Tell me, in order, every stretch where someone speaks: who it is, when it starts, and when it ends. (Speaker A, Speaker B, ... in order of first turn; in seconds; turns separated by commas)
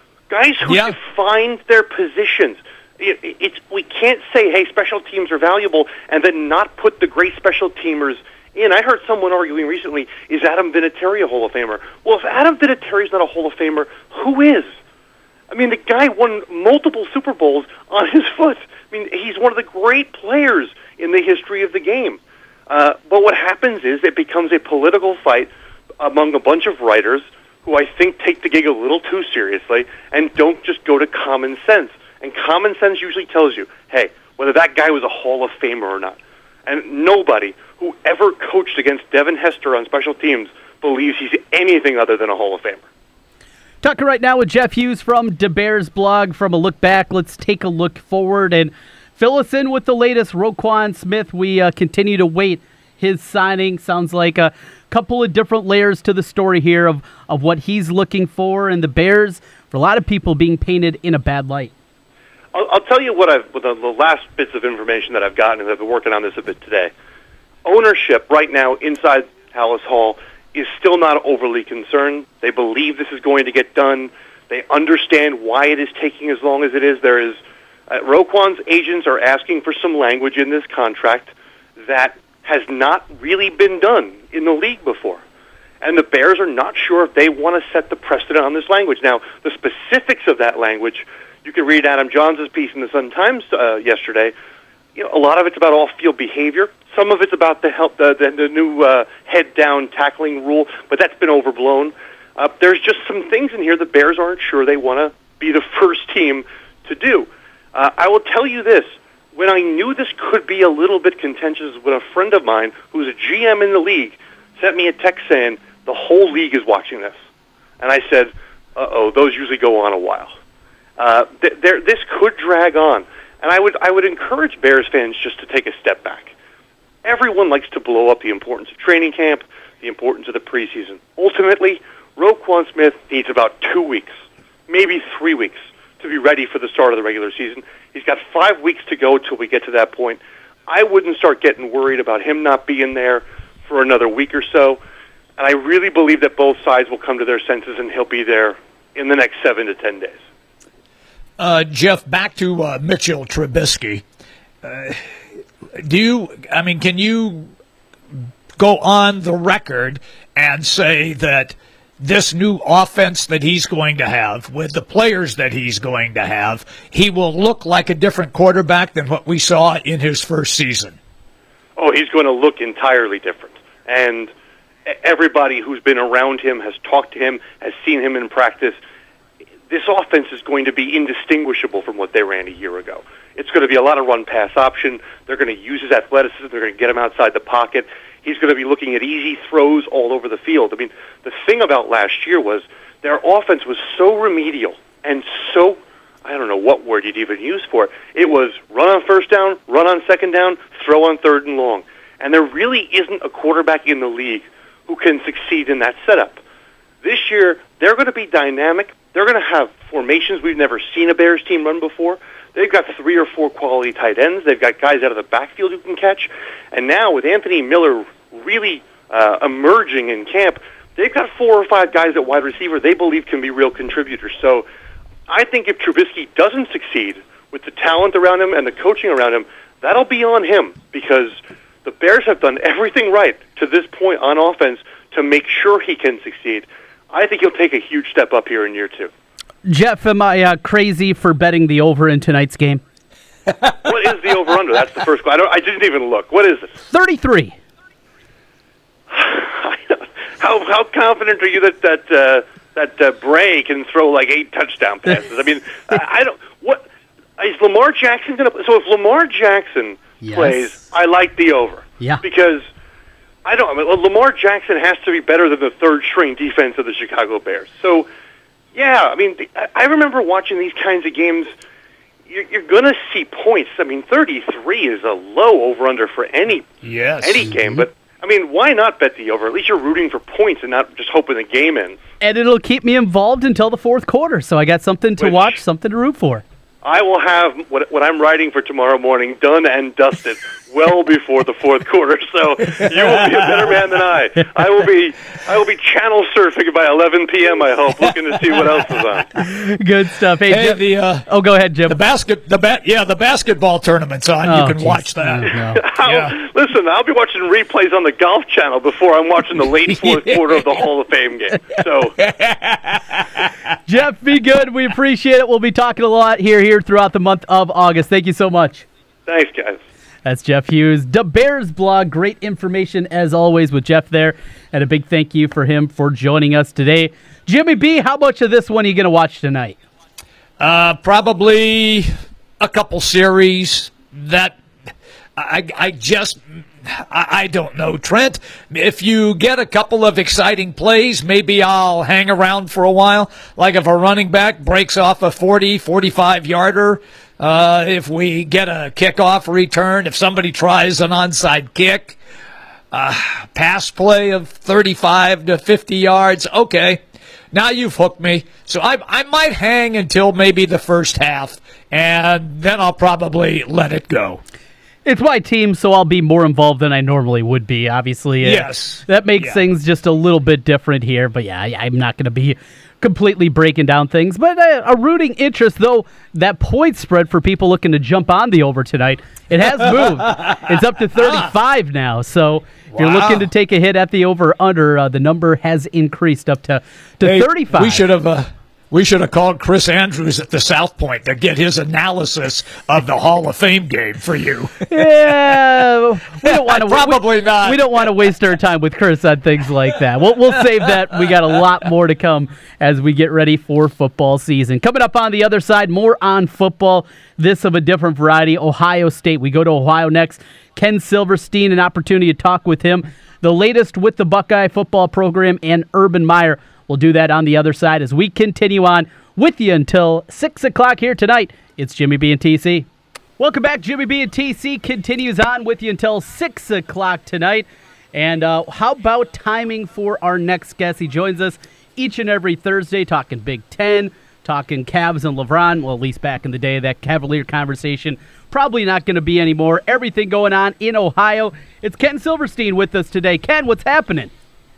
Speaker A: 0.3-14.7, Speaker B: 0.7-0.9, Speaker A: 15.5-42.8, Speaker C: 43.8-61.7, Speaker A: 62.5-66.9, Speaker A: 67.6-81.3, Speaker A: 81.8-85.2, Speaker A: 85.8-94.3, Speaker A: 95.0-117.2, Speaker A: 117.8-120.3, Speaker A: 121.0-126.3, Speaker A: 127.0-134.1, Speaker A: 134.7-144.8, Speaker A: 145.4-150.2, Speaker B: 151.4-154.0, Speaker B: 154.6-155.0, Speaker B: 155.8-157.5, Speaker B: 158.6-171.0, Speaker A: 171.8-174.3, Speaker A: 174.8-178.8, Speaker A: 179.7-206.4, Speaker A: 207.0-224.7, Speaker A: 225.3-239.1, Speaker C: 239.7-242.8, Speaker A: 243.8-246.7, Speaker C: 246.9-247.5, Speaker A: 249.1-256.8, Speaker A: 257.4-262.6, Speaker C: 260.2-260.7, Speaker A: 263.4-268.1, Speaker A: 268.7-271.5, Speaker A: 272.3-282.0, Speaker B: 276.8-277.5, Speaker C: 282.2-286.4, Speaker A: 285.2-285.6, Speaker A: 286.8-299.4, Speaker C: 299.4-302.0, Speaker B: 300.5-301.3, Speaker B: 301.9-306.3, Speaker C: 304.4-305.8, Speaker A: 305.7-312.2, Speaker B: 310.0-310.3, Speaker B: 312.2-313.4, Speaker C: 313.9-318.9, Speaker A: 319.3-319.8, Speaker C: 320.2-329.8, Speaker B: 330.6-334.6, Speaker B: 335.4-352.2, Speaker B: 352.9-357.0, Speaker B: 357.5-364.4, Speaker C: 365.0-388.0, Speaker B: 368.4-369.6, Speaker B: 382.9-383.4, Speaker B: 387.2-394.9, Speaker C: 394.8-422.9, Speaker B: 396.4-398.0, Speaker C: 423.4-444.3